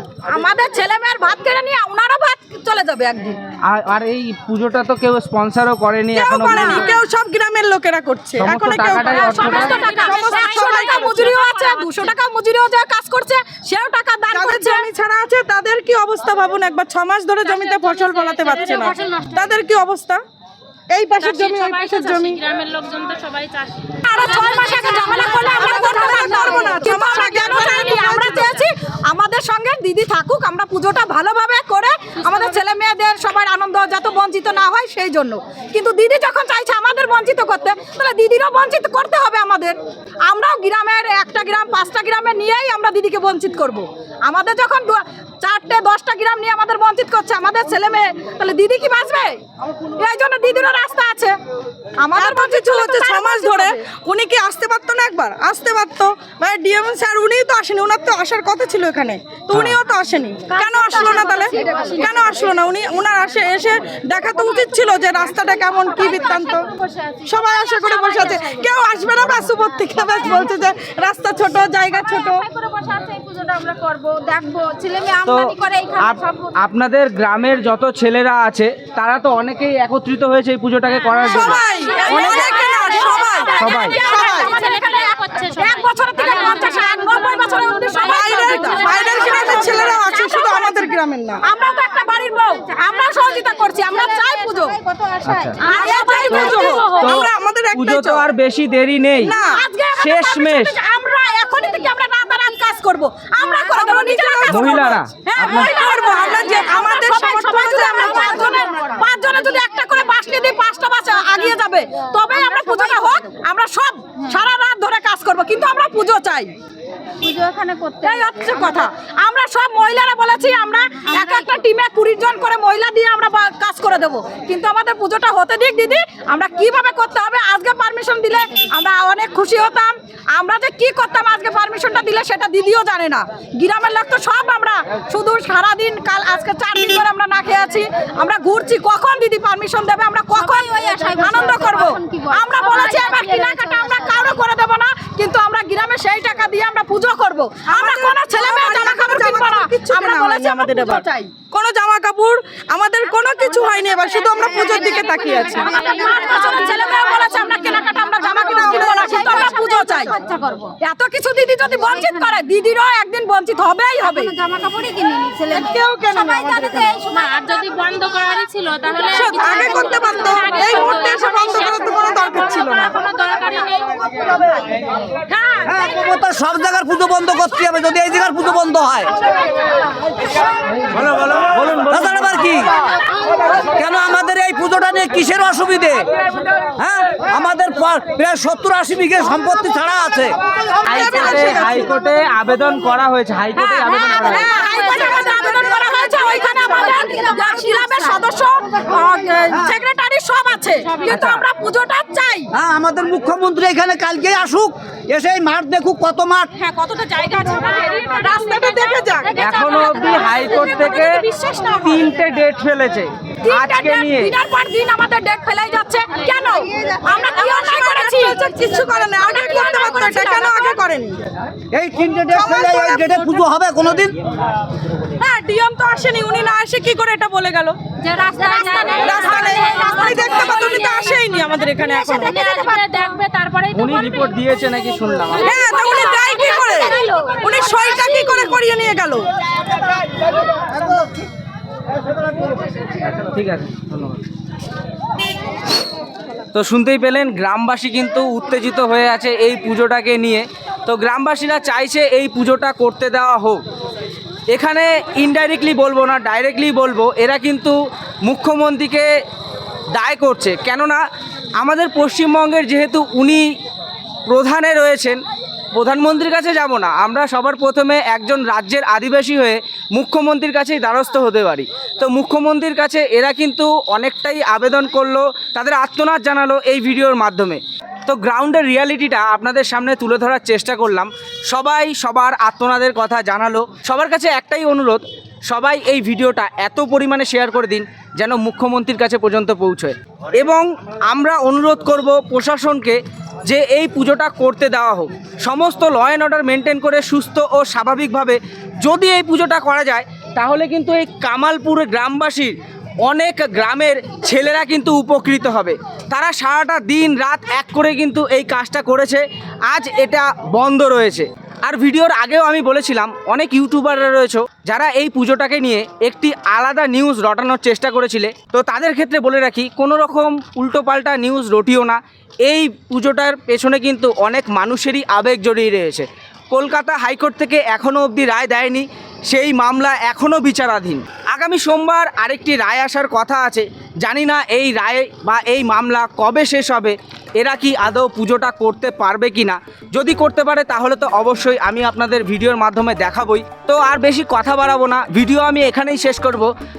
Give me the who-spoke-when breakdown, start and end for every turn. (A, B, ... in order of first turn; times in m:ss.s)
0:00.2-0:03.4 A
0:03.7-0:06.9 B
0:06.1-0:11.3 C
0:06.5-0:06.8 A
0:06.6-0:06.9 D
0:08.4-0:09.9 B
0:08.9-0:12.1 D
0:09.2-0:14.9 A
0:14.3-0:20.2 C
0:17.4-0:19.5 D
0:20.9-0:22.4 C
0:21.2-0:28.7 D
0:24.0-0:39.8 A
0:25.5-0:28.4 C
0:32.3-0:32.6 D
0:40.3-0:49.4 A
0:50.0-0:51.4 A
0:52.0-0:53.8 A
0:52.2-1:06.7 C
0:59.5-0:59.8 B
1:00.6-1:02.4 D
1:06.0-1:08.7 D
1:07.2-1:12.5 C
1:12.1-1:16.5 D
1:15.2-1:21.6 B
1:21.1-1:30.3 D
1:21.2-1:24.5 C
1:22.0-1:30.9 A
1:23.6-1:24.0 B
1:28.0-1:31.4 C
1:31.4-1:34.8 A
1:34.7-1:37.3 D
1:35.2-1:35.6 B
1:35.6-1:38.3 C
1:35.6-1:36.9 A
1:36.3-1:39.4 B
1:39.2-1:39.6 C
1:39.3-1:56.5 A
1:39.9-1:40.8 B
1:43.4-1:48.9 C
1:44.5-1:45.3 B
1:52.7-1:53.0 D
1:57.2-1:58.3 D
1:58.0-2:31.1 A
2:20.4-2:23.9 D
2:27.7-2:36.0 C
2:34.7-2:40.7 D
2:35.9-2:40.2 A
2:38.2-2:40.2 C
2:40.8-2:44.4 A
2:44.1-2:45.7 D
2:45.5-2:47.0 C
2:46.1-2:46.9 A
2:46.8-2:54.6 D
2:49.1-2:53.0 C
2:55.3-2:55.8 D
2:55.6-2:59.1 E
3:00.9-3:02.2 B
3:01.2-3:02.7 E
3:03.7-3:06.1 E
3:06.8-3:10.3 E
3:10.8-3:11.9 C
3:10.8-3:11.8 A
3:10.8-3:14.6 B
3:13.6-3:22.5 A
3:14.4-3:18.1 D
3:21.1-3:21.4 B
3:22.5-3:26.6 E
3:26.7-3:27.9 A
3:27.1-3:32.1 D
3:28.0-3:29.8 C
3:29.4-3:31.2 B
3:30.0-3:30.5 A
3:31.2-3:31.8 A
3:31.8-3:34.4 B
3:33.4-3:40.8 A
3:37.1-3:41.2 C
3:41.7-3:44.2 E
3:42.3-3:43.2 C
3:45.2-3:47.8 C
3:48.0-3:51.2 D
3:48.3-3:52.4 C
3:51.8-3:58.6 D
3:53.7-3:56.0 B
3:55.4-3:59.3 C
4:03.0-4:04.2 B
4:06.5-4:13.6 B
4:14.5-4:19.1 B
4:19.9-4:21.0 B
4:21.6-4:23.5 B
4:24.3-4:25.2 B
4:25.7-5:46.5 B